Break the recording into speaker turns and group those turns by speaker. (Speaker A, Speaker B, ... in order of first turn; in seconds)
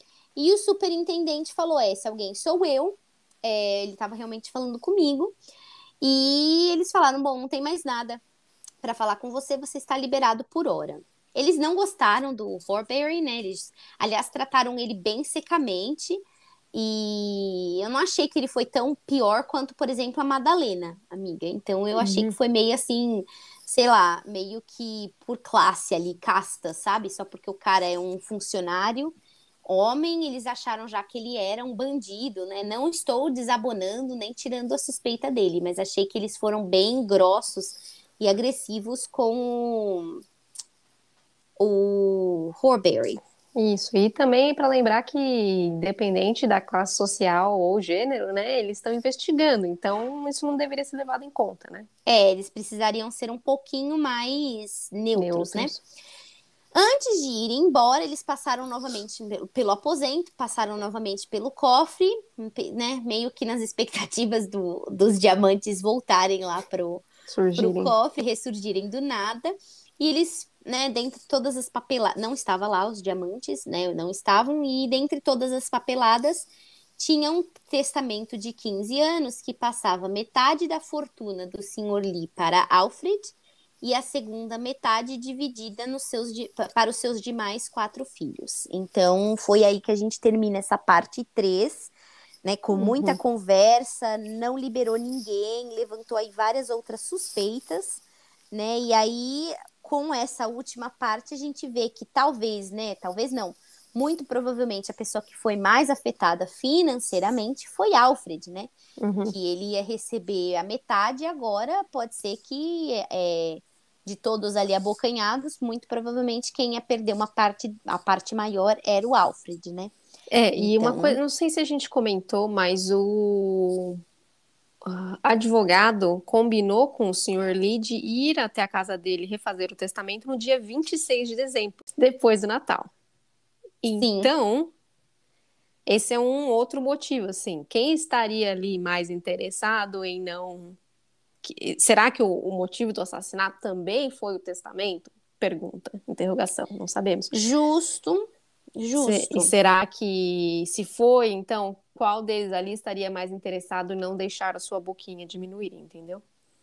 Speaker A: 0.4-5.3, 6.0-8.2, 8.8-16.2, 16.7-40.2, 41.6-43.2, 52.1-55.7, 56.8-67.0, 67.6-91.9, 92.4-108.7, 109.3-119.9, 120.6-121.2, 134.0-134.3, 147.3-148.3, 148.8-149.5
Speaker B: 22.0-22.4, 43.5-51.9, 55.1-55.8, 67.3-67.9, 92.8-93.2, 109.0-109.3, 120.3-124.0, 124.8-132.9, 133.8-134.7, 135.9-140.8, 141.4-147.4, 149.0-156.2